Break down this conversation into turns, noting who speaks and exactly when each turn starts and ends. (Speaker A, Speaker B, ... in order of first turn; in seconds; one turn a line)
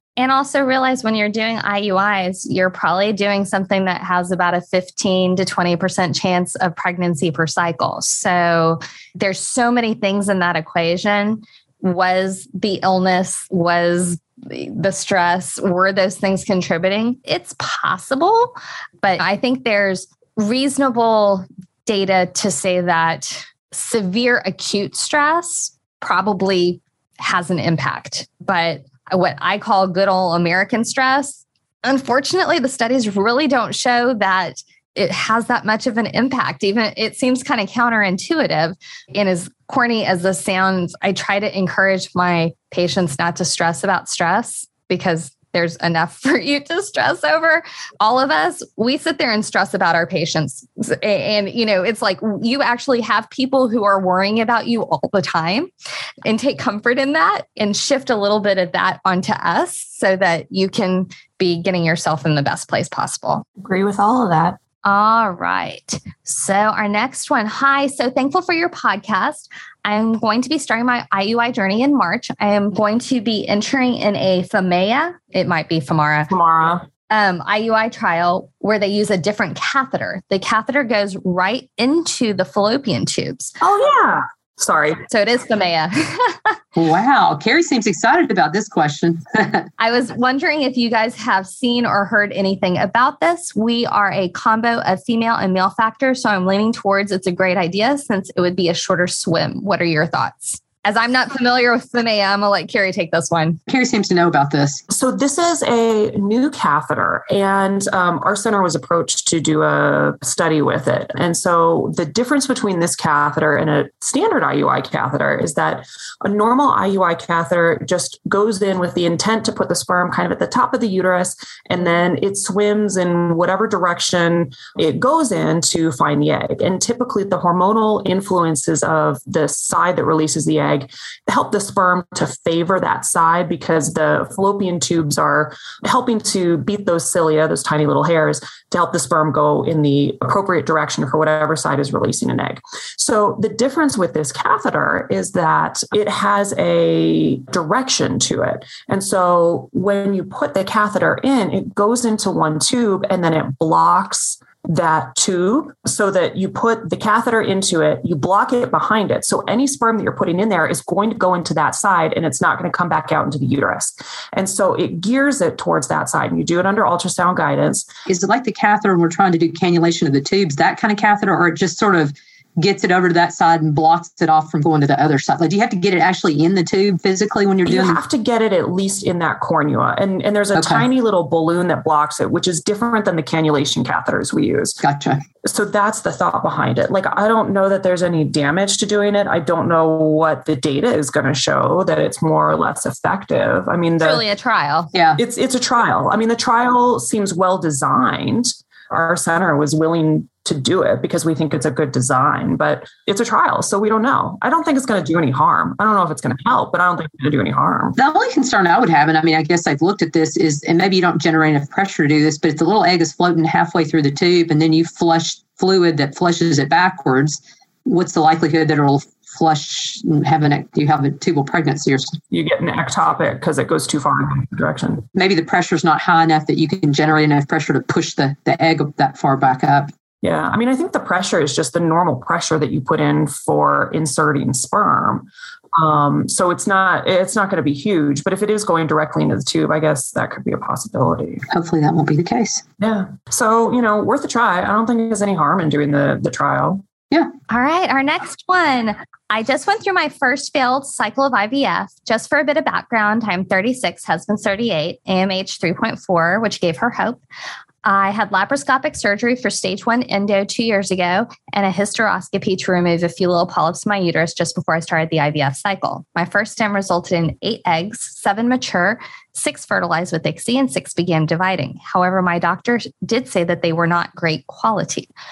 Speaker A: 0.2-55.7
Speaker A: 56.2-63.4
Speaker B: 63.6-64.6
Speaker A: 64.8-76.3
Speaker B: 76.3-76.9
Speaker A: 77.1-83.5
Speaker B: 83.6-85.0
Speaker A: 85.1-86.6
Speaker C: 86.8-89.7
Speaker A: 89.8-103.6
Speaker C: 103.7-104.8
Speaker B: 104.9-167.9
Speaker C: 168.1-178.0
Speaker B: 177.7-184.8
Speaker C: 180.6-180.9
Speaker C: 184.8-185.2
Speaker B: 185.4-194.2
Speaker A: 194.0-194.9
Speaker C: 194.9-195.2
Speaker B: 195.2-208.0
Speaker C: 208.0-222.2
Speaker B: 222.3-225.1
Speaker C: 225.2-229.9
Speaker B: 230.2-241.4
Speaker C: 241.5-242.6
Speaker B: 242.8-246.8
Speaker A: 247.5-257.2
Speaker A: 257.8-275.1